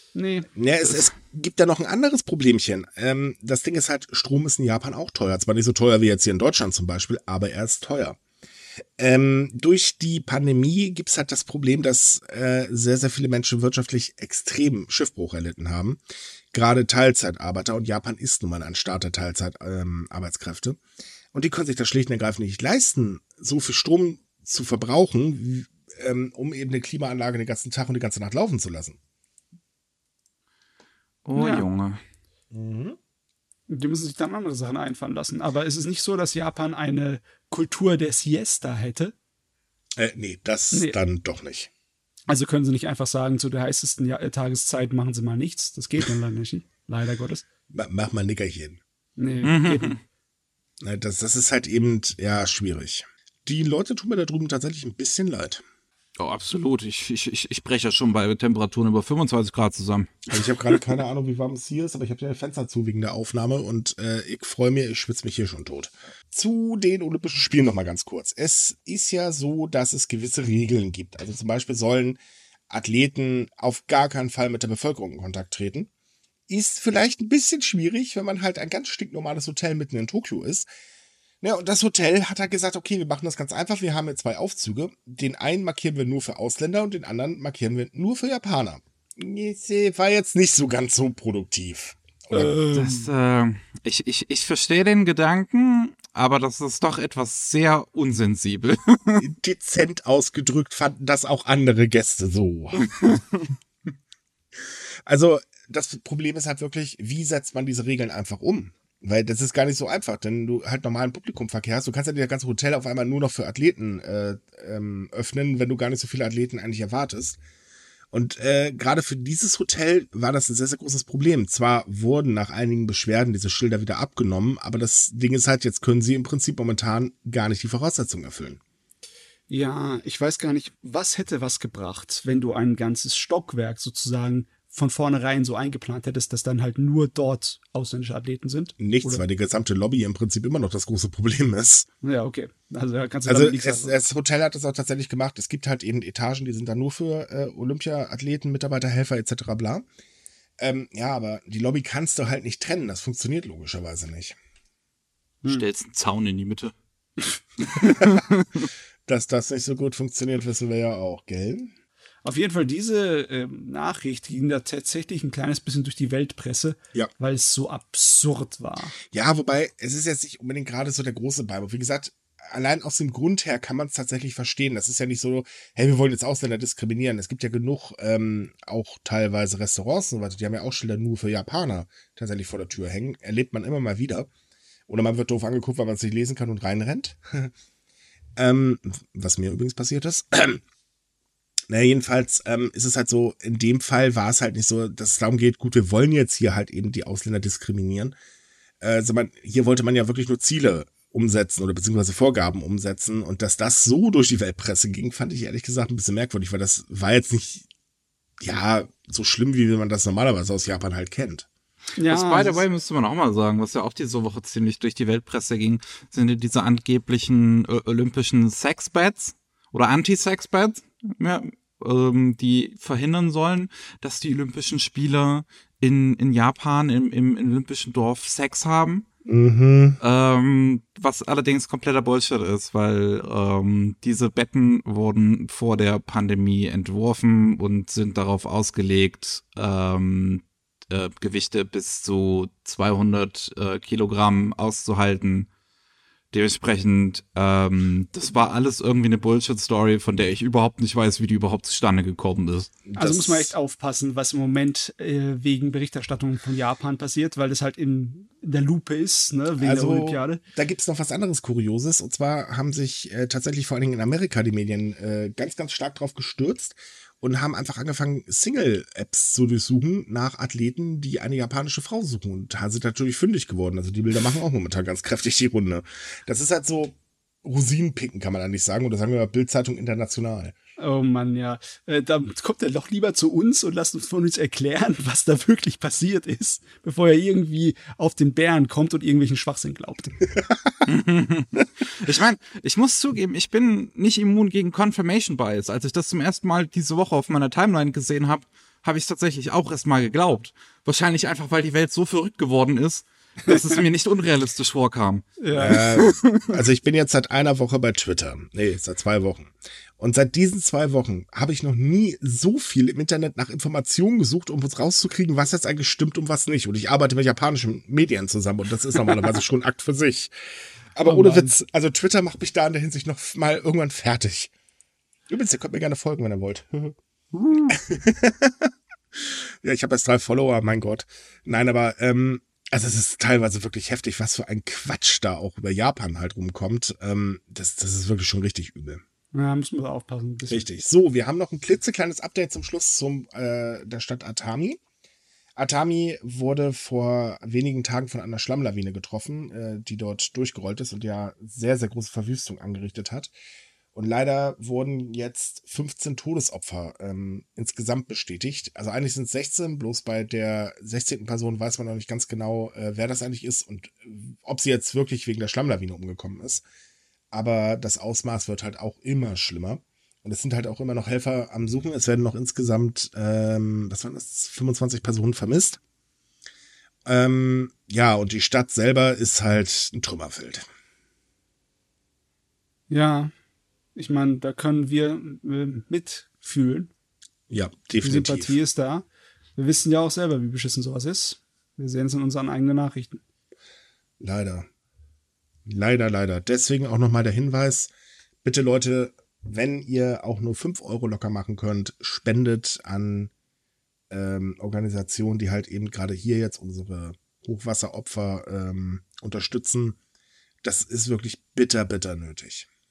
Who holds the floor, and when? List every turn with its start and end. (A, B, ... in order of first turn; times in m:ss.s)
0:00.2-0:00.5 A
0:00.6-0:08.2 B
0:09.0-0:16.0 B
0:16.5-0:20.8 B
0:21.3-0:29.0 B
0:31.2-0:32.0 C
0:31.4-0:31.6 A
0:32.5-0:33.0 B
0:33.7-0:39.1 A
0:40.0-0:41.7 B
0:40.7-0:41.0 A
0:42.3-0:47.4 A
0:47.7-0:48.8 B
0:49.2-0:50.0 A
0:49.4-0:50.0 C
0:50.8-0:55.6 B
0:56.2-1:00.3 C
1:00.3-1:12.2 B
1:12.7-1:15.9 B
1:16.5-1:20.7 B
1:21.4-1:32.6 B
1:32.3-1:33.1 A
1:32.7-1:39.2 C
1:39.2-1:43.2 B
1:42.8-1:43.2 C
1:44.6-1:57.4 B
1:58.1-2:08.6 B
2:09.5-2:19.2 A
2:18.8-2:21.9 B
2:22.0-2:24.0 A
2:23.3-2:29.9 B
2:30.6-2:34.4 B
2:35.5-2:36.7 C
2:37.6-2:38.7 C
2:37.8-2:38.2 B
2:39.1-2:41.7 B
2:42.2-2:49.0 A
2:49.1-3:04.3 B
3:04.9-3:07.5 B
3:08.4-3:10.6 B
3:11.7-3:18.2 B
3:18.8-3:27.7 B
3:28.4-3:31.5 B
3:32.0-3:32.6 A
3:32.1-3:49.0 C
3:49.2-3:50.0 B
3:50.0-4:05.5 C
4:06.3-4:12.7 C
4:12.9-4:13.5 B
4:13.0-4:20.4 A
4:19.6-4:40.6 B
4:40.8-4:50.2 A
4:50.5-4:50.8 B
4:50.8-5:06.4 C
5:03.5-5:03.8 A
5:05.4-5:05.8 A
5:05.5-5:20.3 B
5:21.0-5:24.5 B
5:21.0-5:21.6 A
5:25.3-5:27.0 B
5:27.3-5:27.8 A
5:27.7-5:39.0 B
5:39.3-5:40.7 A
5:40.5-5:44.8 B
5:45.6-5:53.3 B
5:53.9-6:06.6 B
6:07.3-6:15.8 B
6:17.1-6:20.7 B
6:22.9-6:23.3 A
6:24.0-6:26.9 A
6:27.5-6:28.6 B
6:28.0-6:29.0 A
6:29.6-6:33.2 A
6:34.2-6:34.7 B
6:35.7-6:37.9 B
6:38.4-6:43.3 B
6:44.1-6:50.0 B
6:50.6-6:52.7 B